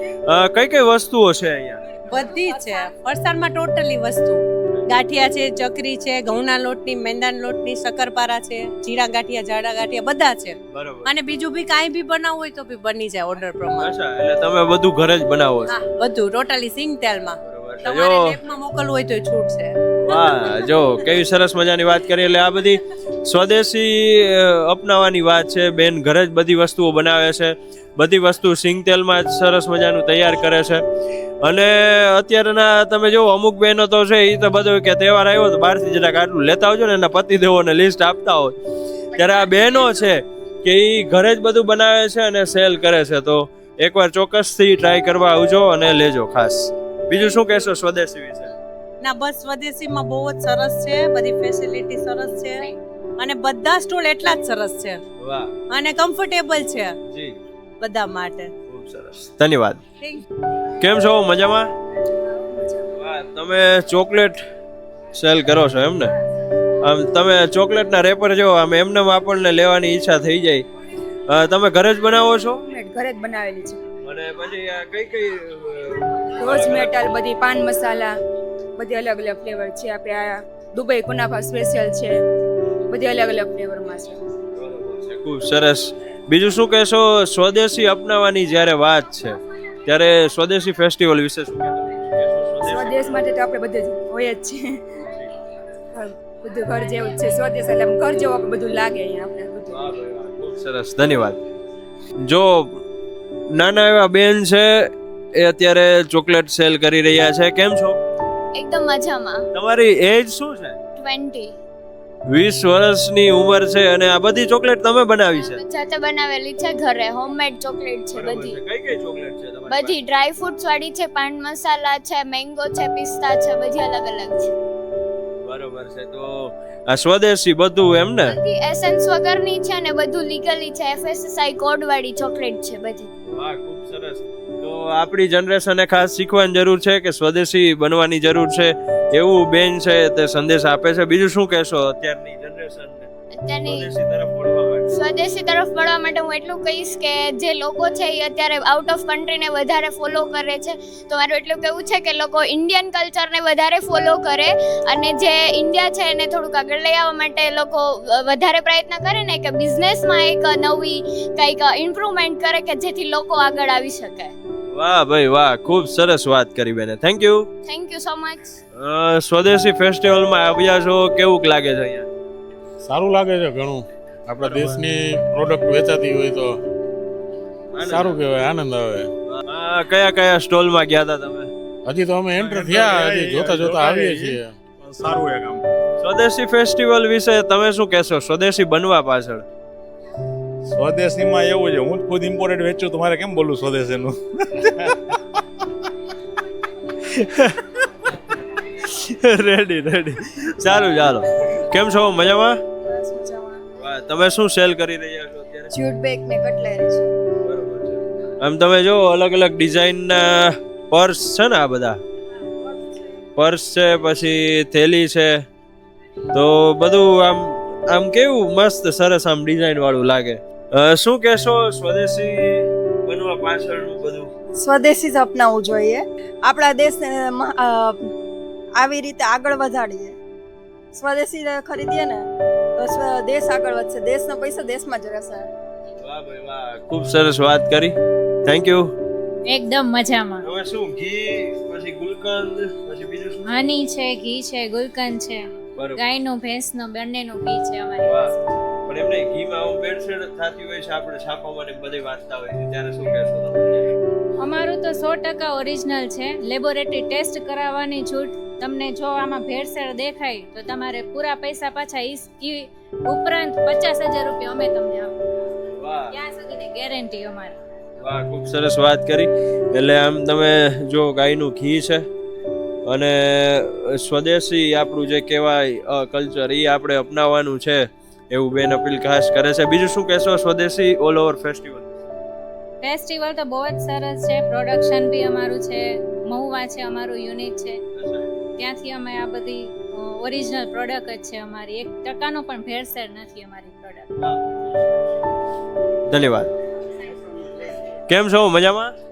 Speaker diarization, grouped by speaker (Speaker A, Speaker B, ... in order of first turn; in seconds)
Speaker A: 0.3-1.8, 10.7-11.1, 13.8-15.8, 17.4-18.4, 20.0-30.8, 31.4-38.5, 39.1-48.6, 55.2-55.5, 57.1-57.4, 58.7-59.8, 60.8-61.7, 62.9-64.4, 65.2-66.1, 66.8-70.7, 71.3-72.6, 74.0-77.2, 84.5-93.2, 95.0-95.3, 99.7-101.4, 102.2-102.8, 103.5-108.0, 109.5-110.8, 112.3-115.6, 118.1-120.0, 125.4-128.4, 133.3-143.1, 143.6-144.9, 164.7-167.5, 168.8-172.1, 174.4-174.7, 177.7-178.2, 179.3-181.5, 186.0-189.4, 197.0-197.9, 198.7-202.6, 203.8-205.8, 207.4-212.0, 213.4-215.4, 216.3-224.3, 236.0-238.9, 240.4-243.6, 245.8-246.1, 248.0-248.3, 248.9-253.9, 265.7-266.2, 268.0-272.1, 272.9-281.9, 287.9-288.3, 294.2-294.7, 296.1-296.5, 298.1-298.9
Speaker B: 2.1-13.9, 15.7-20.5, 49.0-55.0, 55.7-56.9, 57.8-58.5
Speaker C: 72.7-73.8, 76.4-78.2, 78.8-82.2, 82.9-84.2, 92.7-94.6, 96.5-99.6, 203.0-203.6, 205.7-207.1, 224.7-225.1, 233.4-235.4
Speaker D: 92.7-93.5, 96.8-97.4, 98.3-98.8, 224.6-227.8, 228.8-230.1, 231.0-232.2, 232.8-235.4
Speaker E: 108.5-109.5, 111.0-111.5, 115.3-118.6, 119.7-124.5, 128.3-133.1, 143.3-143.9, 144.9-164.3, 167.7-168.6
Speaker F: 172.8-176.6, 177.8-179.1, 181.9-184.6
Speaker G: 182.4-185.6, 190.7-194.2
Speaker H: 239.5-240.4, 243.4-245.4, 246.0-248.3, 254.4-265.1, 266.1-267.6, 282.8-287.8, 288.6-294.1